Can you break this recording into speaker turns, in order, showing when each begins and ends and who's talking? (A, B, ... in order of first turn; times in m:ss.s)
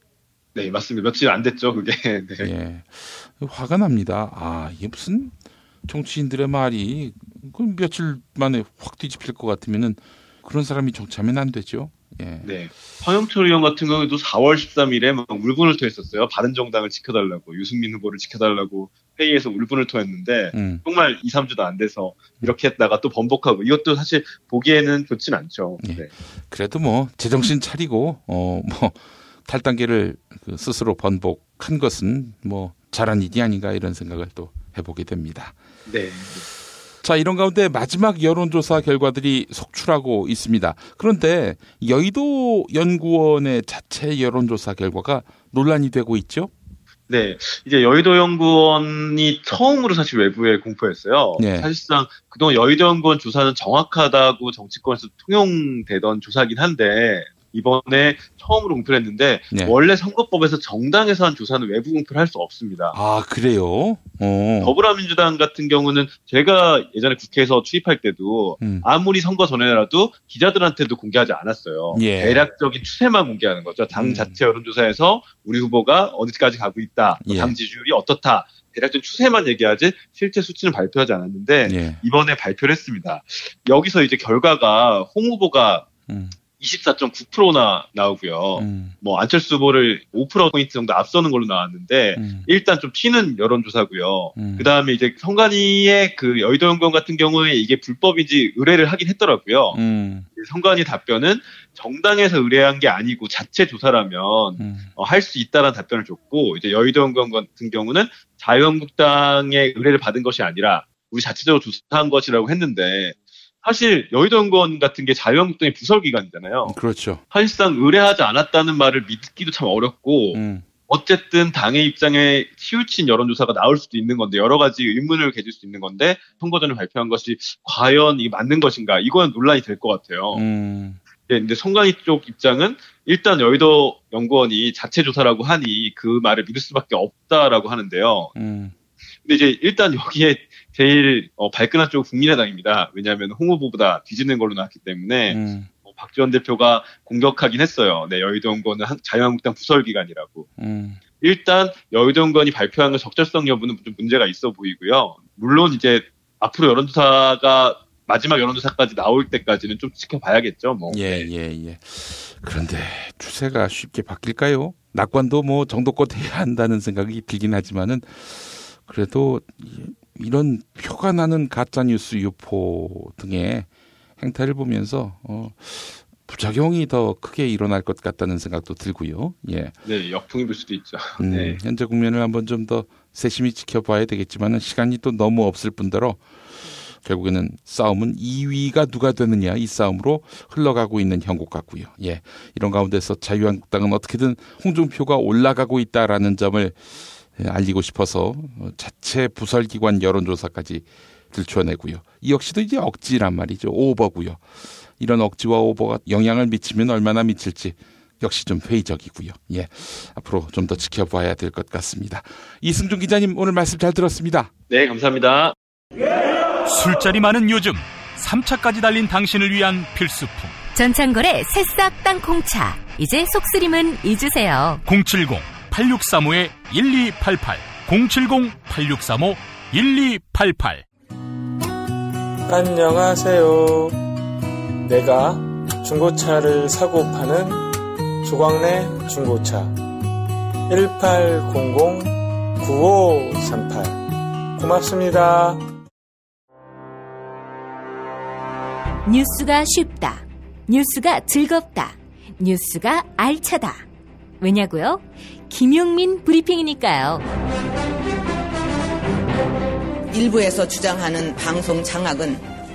0:00.6-0:02.5 A
0:02.4-0:12.6 B
0:12.4-0:26.1 A
0:20.5-0:20.8 B
0:25.8-0:35.6 B
0:35.9-0:36.4 A
0:37.0-0:46.5 B
0:47.1-1:03.0 A
0:51.4-0:51.7 B
0:59.5-0:59.8 B
1:02.9-1:04.8 B
1:04.6-1:25.9 A
1:08.6-1:08.9 B
1:11.9-1:12.5 B
1:13.9-1:14.3 B
1:17.2-1:17.6 B
1:21.6-1:22.0 B
1:26.1-1:26.4 B
1:26.6-1:39.8 A
1:28.6-1:28.9 B
1:32.2-1:32.5 B
1:34.3-1:34.7 B
1:39.7-1:40.2 B
1:40.3-1:56.8 A
1:44.6-1:44.9 B
1:56.6-1:57.2 B
1:57.3-2:10.4 A
2:00.3-2:00.6 B
2:10.3-2:11.0 B
2:11.3-2:18.3 A
2:18.3-2:18.7 B
2:19.2-2:30.5 A
2:25.3-2:25.7 B
2:30.6-2:31.0 B
2:31.2-2:41.3 A
2:40.9-2:59.7 B
2:59.8-3:01.6 A
3:01.2-3:06.2 B
3:06.9-3:34.5 B
3:34.7-3:35.6 A
3:36.6-3:40.6 C
3:40.7-3:44.8 D
3:44.8-3:50.8 C
3:52.5-3:54.0 E
3:54.8-3:57.6 E
3:58.2-3:59.8 E
4:00.7-4:04.0 E
4:04.6-4:05.6 E
4:09.0-4:13.8 D
4:14.4-4:17.2 D
4:20.1-4:22.4 F